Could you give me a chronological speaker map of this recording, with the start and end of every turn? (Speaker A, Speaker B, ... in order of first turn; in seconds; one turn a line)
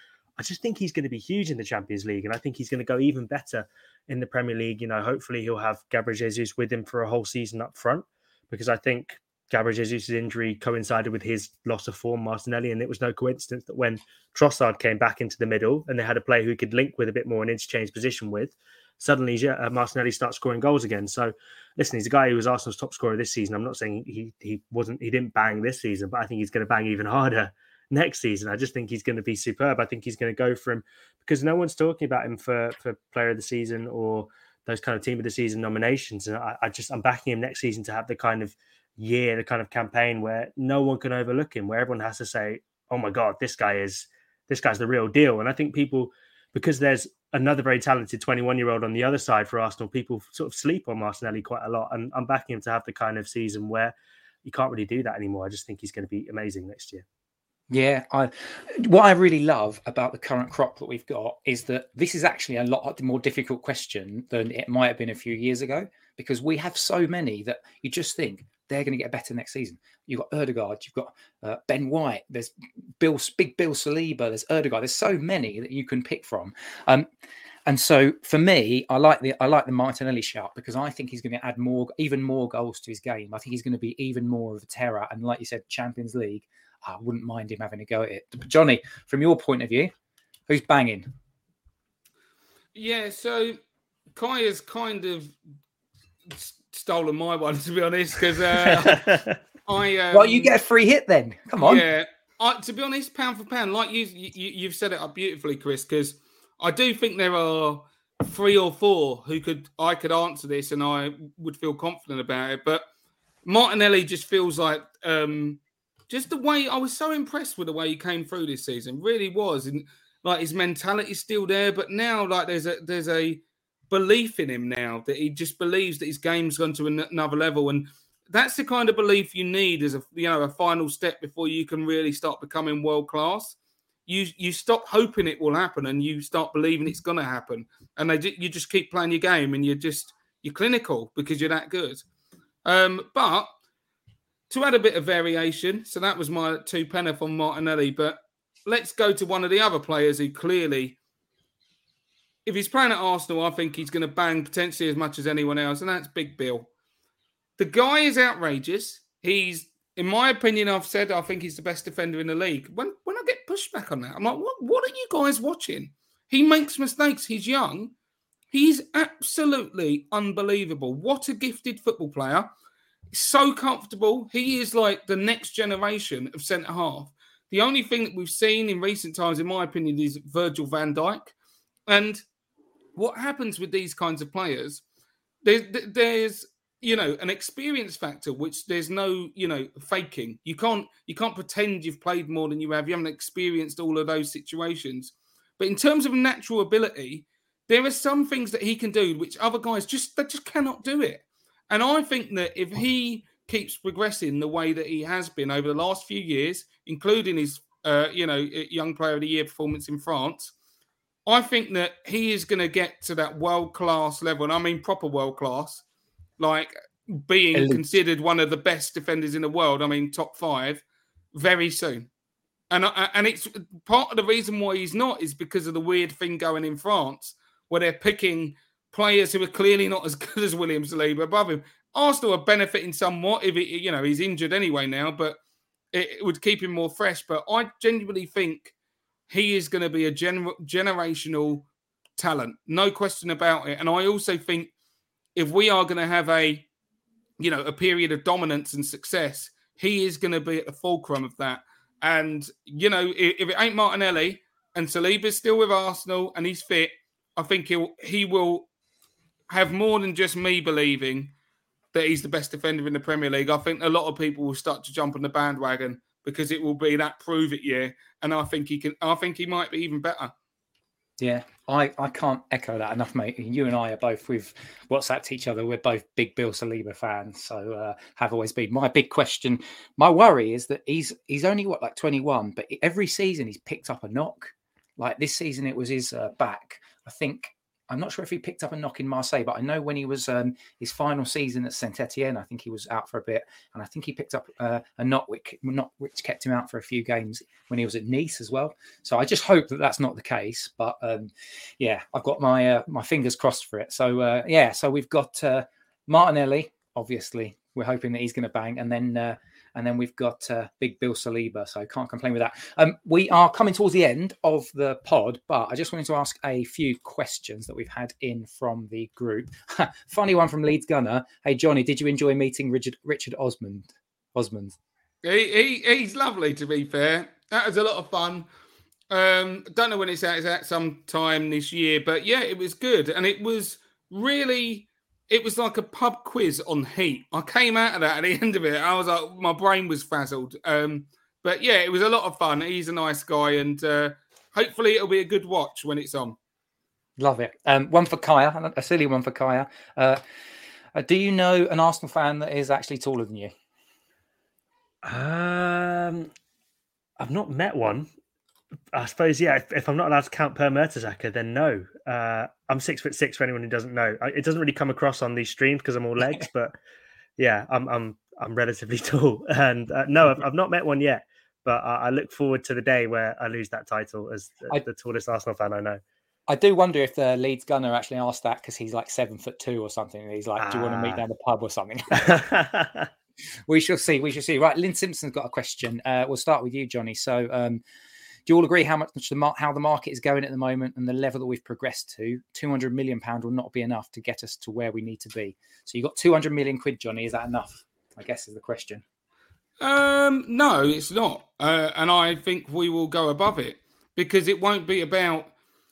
Speaker A: 0.4-57.0
Speaker B: 57.7-77.1
Speaker B: 77.7-89.9
Speaker B: 90.5-91.1
Speaker C: 92.7-93.6
Speaker C: 94.1-95.3
Speaker C: 96.3-100.5
Speaker A: 98.9-99.3
Speaker B: 100.1-101.8
Speaker C: 101.6-112.8
Speaker C: 113.4-142.0
Speaker C: 142.6-143.5
Speaker C: 144.5-151.0
Speaker C: 152.4-156.7
Speaker C: 157.6-167.9
Speaker C: 168.5-172.5
Speaker C: 173.1-181.3
Speaker C: 181.9-182.2
Speaker C: 182.9-184.8
Speaker C: 185.4-210.5
Speaker C: 211.2-215.8
Speaker C: 216.4-222.1
Speaker B: 217.5-217.8
Speaker C: 222.7-235.4
Speaker C: 235.9-238.7
Speaker C: 239.3-244.7
Speaker C: 245.3-246.7
Speaker C: 247.4-258.7
Speaker C: 259.5-261.3
Speaker C: 261.9-270.3
Speaker B: 271.2-324.8
Speaker C: 325.2-328.5
Speaker C: 329.1-346.4
Speaker B: 347.2-350.2
Speaker B: 350.9-353.5
Speaker A: 355.0-356.3
Speaker A: 357.2-358.1
Speaker A: 358.9-366.7
Speaker A: 367.4-376.0
Speaker B: 376.5-382.4
Speaker A: 380.6-381.2
Speaker A: 382.2-383.1
Speaker B: 383.7-387.8
Speaker B: 388.5-399.0
Speaker C: 399.8-405.5